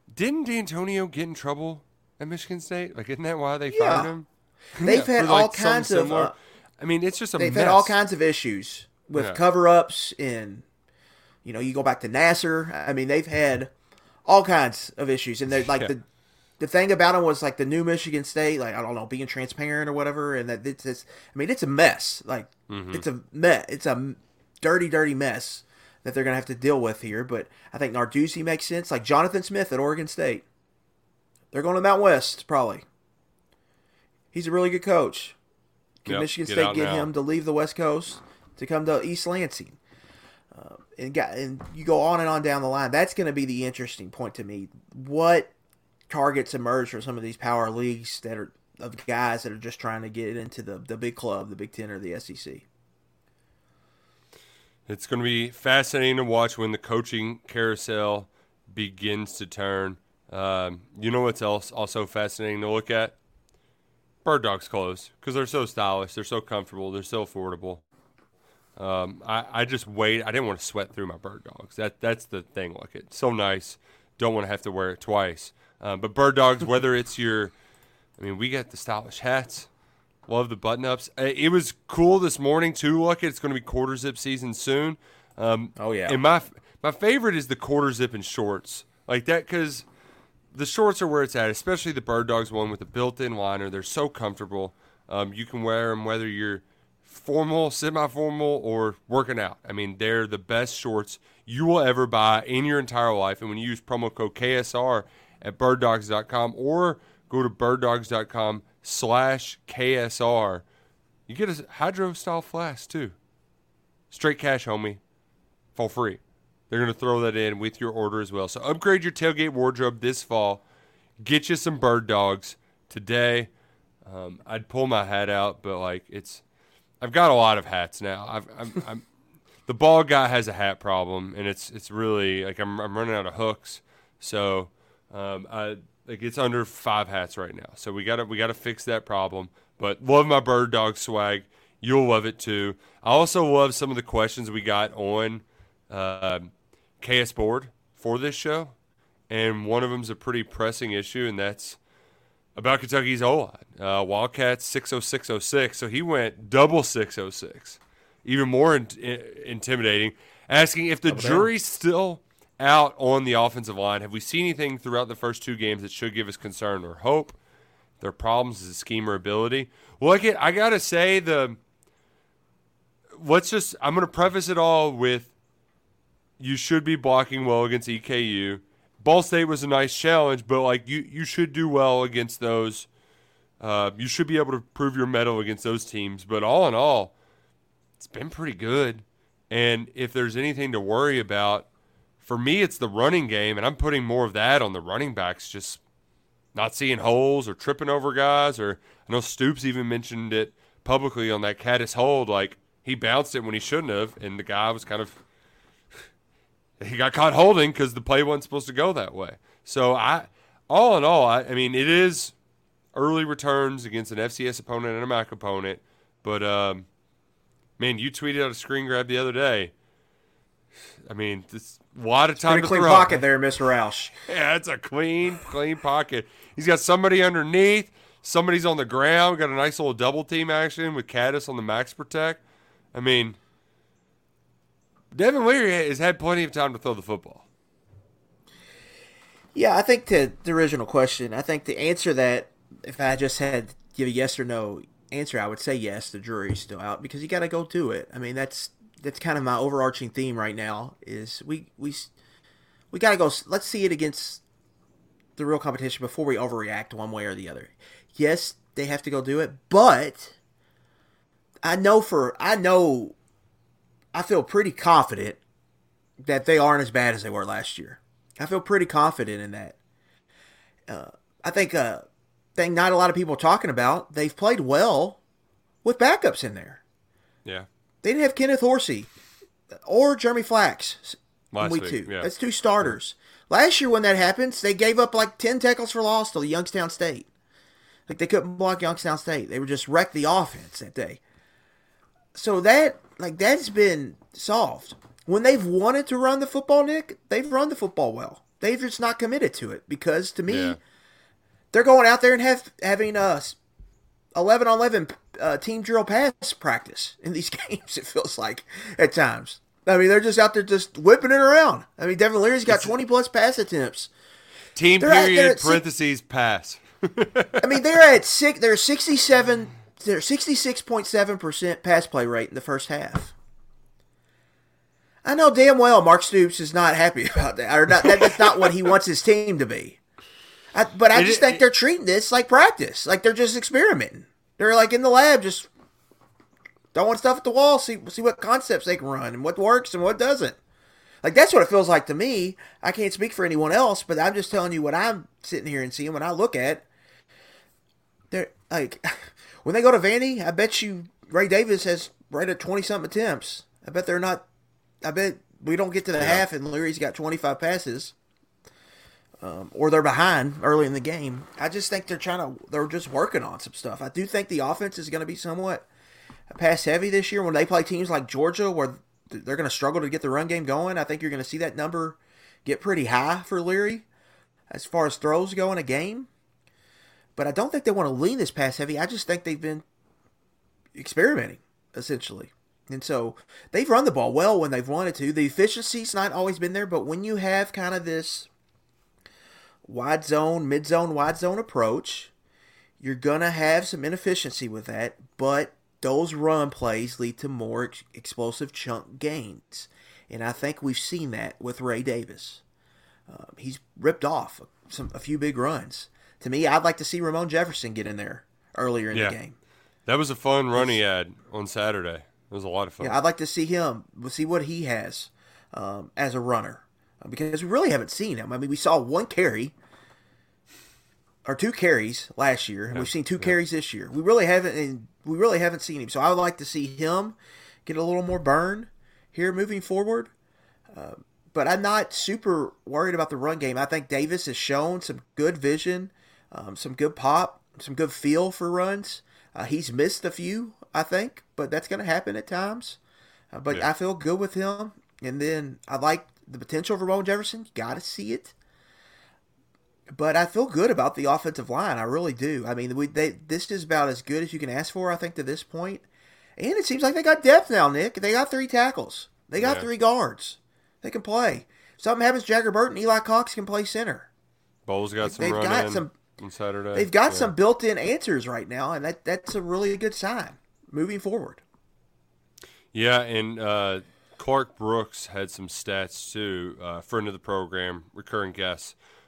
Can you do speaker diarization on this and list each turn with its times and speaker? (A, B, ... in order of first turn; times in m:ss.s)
0:00.1-0:08.0 A
0:03.7-0:04.1 B
0:04.8-0:06.3 B
0:07.4-0:10.6 B
0:09.1-0:09.4 A
0:11.4-0:13.7 B
0:14.2-0:16.0 B
0:16.6-0:30.4 B
0:22.7-0:23.0 A
0:31.5-0:32.8 B
0:34.3-0:35.4 B
0:36.0-0:39.8 B
0:36.1-0:37.1 A
0:40.5-0:45.5 B
0:46.1-0:52.6 B
0:54.9-1:03.2 A
1:04.2-1:07.8 A
1:08.8-1:17.5 A
1:18.2-1:19.7 A
1:20.3-1:29.8 A
1:25.8-1:26.2 B
1:30.5-1:50.6 A
1:51.3-1:53.1 A
1:54.1-1:55.0 A
1:55.7-2:00.6 A
2:01.2-2:03.5 A
2:04.0-2:06.4 A
2:07.0-2:09.0 A
2:09.6-2:28.7 A
2:29.3-2:31.8 A
2:32.6-2:47.4 A
2:41.1-2:41.5 B
2:48.0-2:51.6 A
2:53.1-2:55.3 A
2:56.4-3:02.9 A
3:03.6-3:07.1 A
3:08.0-3:11.7 A
3:12.2-3:15.8 A
3:16.5-3:25.2 A
3:26.8-3:32.3 A
3:32.9-3:36.8 A
3:37.8-3:39.7 A
3:41.0-3:43.2 A
3:42.4-3:44.1 B
3:44.3-3:52.4 A
3:52.9-3:53.4 A
3:55.1-3:57.4 A
3:59.5-4:12.1 B
4:12.9-4:14.4 B
4:15.4-4:20.4 B
4:21.6-4:23.1 B
4:24.1-4:25.4 B
4:26.2-4:29.8 B
4:30.9-4:35.2 B
4:35.8-4:36.8 B
4:38.0-4:39.1 B
4:39.8-4:47.3 B
4:41.5-4:42.3 A
4:48.1-4:51.2 B
4:52.3-5:00.8 B
5:00.5-5:00.8 A
5:01.7-5:03.6 B
5:04.3-5:14.1 B
5:12.7-5:12.9 A
5:14.7-5:17.7 A
5:15.0-5:15.8 B
5:17.6-5:23.3 B
5:25.2-5:30.0 B
5:30.7-5:35.7 B
5:31.1-5:31.6 A
5:36.9-5:40.6 B
5:41.2-5:46.8 B
5:48.3-5:54.4 B
5:55.0-5:58.1 B
5:56.2-5:56.4 A
5:59.4-6:05.9 B
6:06.5-6:14.0 B
6:14.7-6:16.3 B
6:17.4-6:19.8 B
6:20.9-6:28.5 B
6:29.8-6:32.3 B
6:33.0-6:42.6 B
6:43.3-6:49.6 B
6:49.1-6:49.4 A
6:50.1-6:53.2 A
6:53.0-6:59.7 B
7:01.4-7:10.3 B
7:02.9-7:03.5 A
7:10.9-7:23.0 B
7:23.5-7:28.5 B
7:30.1-7:36.0 B
7:36.6-7:44.3 B
7:39.6-7:39.9 A
7:44.8-7:47.5 A
7:45.2-7:46.1 B
7:46.9-7:51.6 B
7:52.9-7:58.9 A